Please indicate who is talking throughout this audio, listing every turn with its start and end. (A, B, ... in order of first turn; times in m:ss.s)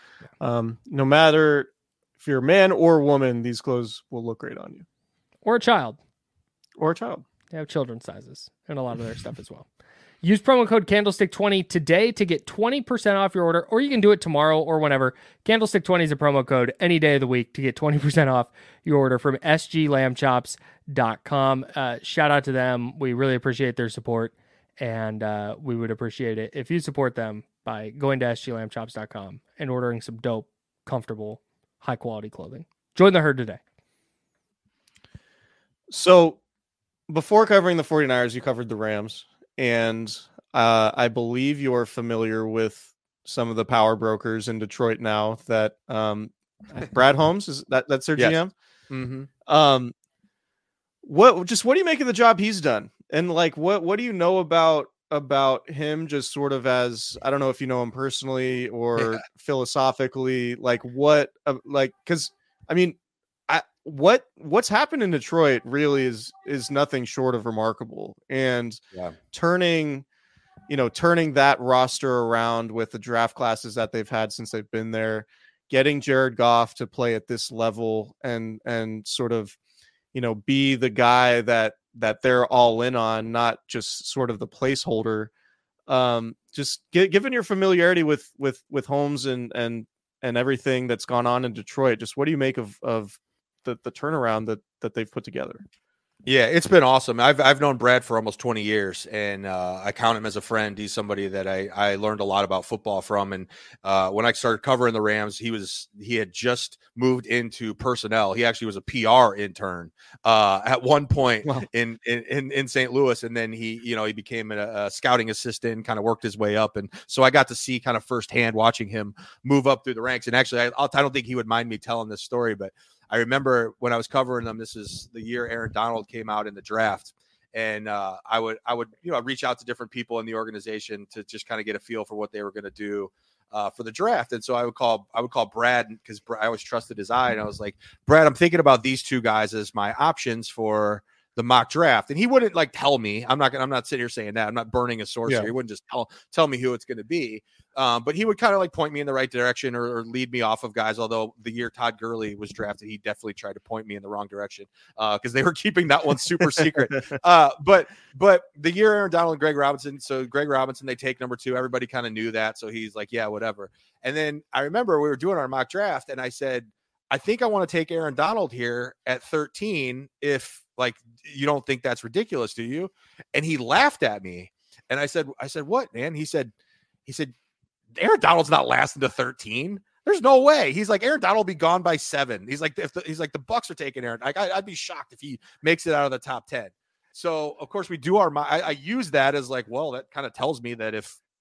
0:00.4-0:04.9 A
0:05.4-0:06.0 B
0:06.8-0:07.2 A
0:07.5-0:09.7 B
0:10.2-0:33.6 B
0:35.9-0:36.4 A
0:37.1-0:48.5 A
0:48.9-0:49.3 C
0:49.5-0:49.9 A
0:51.0-1:03.0 A
1:03.5-1:10.0 A
1:10.7-1:19.6 A
1:20.1-1:25.3 A
1:25.9-1:35.6 A
1:36.3-2:56.5 C
2:25.3-2:25.5 A
2:57.1-2:57.3 C
2:58.0-3:11.2 C